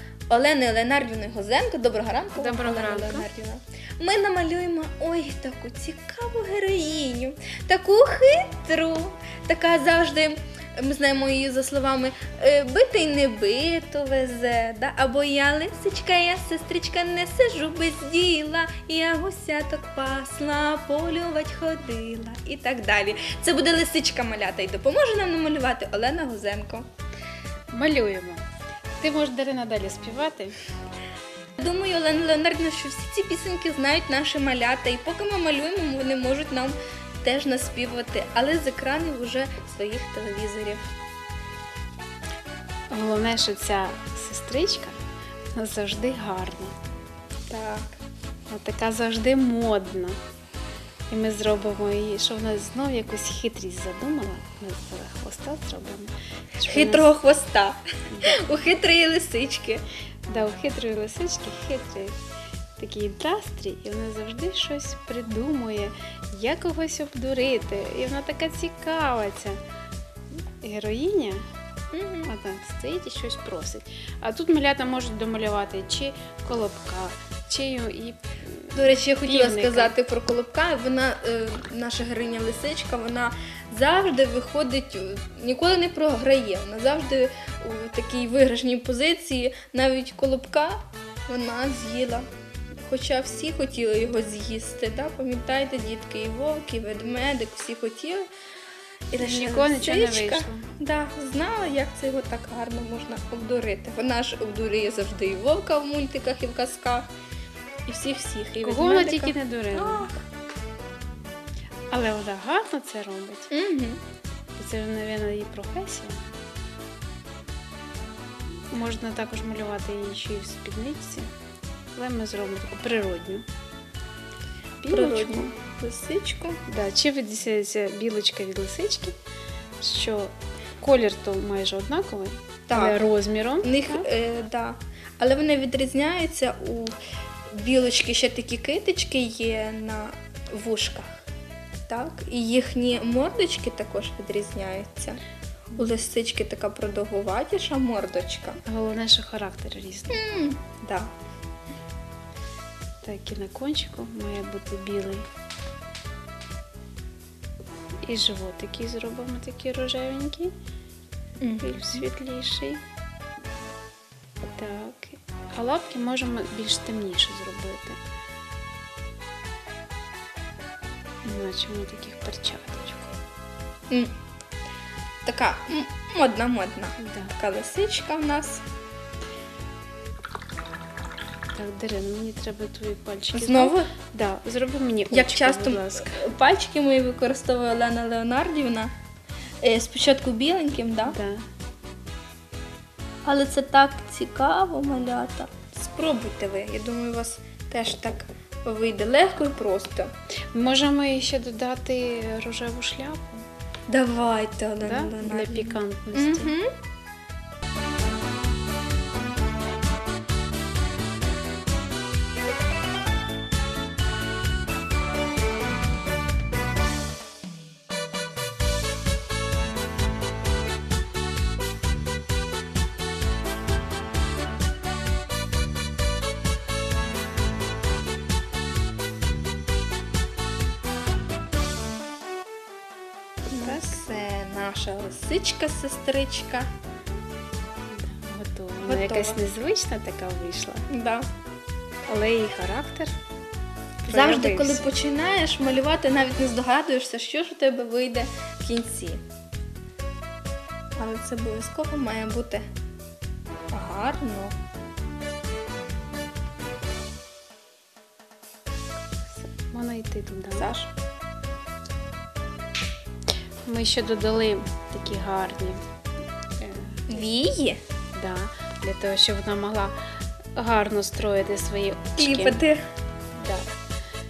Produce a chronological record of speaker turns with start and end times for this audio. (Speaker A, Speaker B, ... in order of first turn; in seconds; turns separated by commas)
Speaker A: 0.3-26.9, Speaker B: 2.4-3.2, Speaker B: 27.7-28.4, Speaker B: 29.0-30.6, Speaker A: 31.6-40.8, Speaker B: 42.9-45.0, Speaker B: 45.5-46.8, Speaker A: 47.5-47.9, Speaker B: 48.5-50.2, Speaker B: 51.1-57.1, Speaker A: 56.6-59.8, Speaker B: 60.3-62.2, Speaker B: 62.8-69.6, Speaker B: 70.6-71.4, Speaker A: 71.9-72.3, Speaker B: 72.2-79.9, Speaker A: 78.7-92.2, Speaker A: 92.8-98.3, Speaker A: 99.1-107.1, Speaker B: 99.2-100.7, Speaker A: 107.8-110.2, Speaker B: 108.6-110.2, Speaker B: 111.9-113.5, Speaker A: 113.5-114.0, Speaker B: 114.5-116.2, Speaker B: 118.7-121.3, Speaker B: 121.9-123.5, Speaker B: 124.8-125.5, Speaker A: 124.9-126.6, Speaker B: 126.7-129.1, Speaker B: 129.8-134.1, Speaker A: 132.7-133.0, Speaker A: 133.6-137.0, Speaker A: 137.5-141.3, Speaker A: 141.9-145.2, Speaker A: 145.8-148.6, Speaker B: 148.6-150.2, Speaker A: 150.1-151.1, Speaker B: 153.0-155.3, Speaker B: 158.1-160.5, Speaker A: 161.4-162.0, Speaker B: 161.6-162.8, Speaker B: 164.6-168.0, Speaker B: 171.2-173.1, Speaker A: 175.2-178.6, Speaker B: 177.0-177.3, Speaker B: 181.5-186.3, Speaker A: 183.3-183.9, Speaker A: 185.1-188.9, Speaker A: 189.6-191.2, Speaker B: 191.1-191.4, Speaker A: 193.2-200.1, Speaker B: 200.5-203.4, Speaker A: 203.9-206.7, Speaker B: 204.8-206.5, Speaker A: 233.5-236.7, Speaker B: 233.6-234.0, Speaker B: 237.9-240.8, Speaker A: 238.8-239.4, Speaker A: 240.9-241.3, Speaker B: 242.1-243.1, Speaker B: 244.0-244.9, Speaker A: 244.1-249.2, Speaker A: 251.0-252.6, Speaker A: 253.7-254.6, Speaker B: 259.4-260.7, Speaker A: 260.5-260.9, Speaker B: 263.6-265.9, Speaker B: 266.6-267.2, Speaker A: 267.1-267.8, Speaker B: 268.1-269.9, Speaker B: 270.6-272.6, Speaker A: 272.2-272.8, Speaker B: 273.4-273.6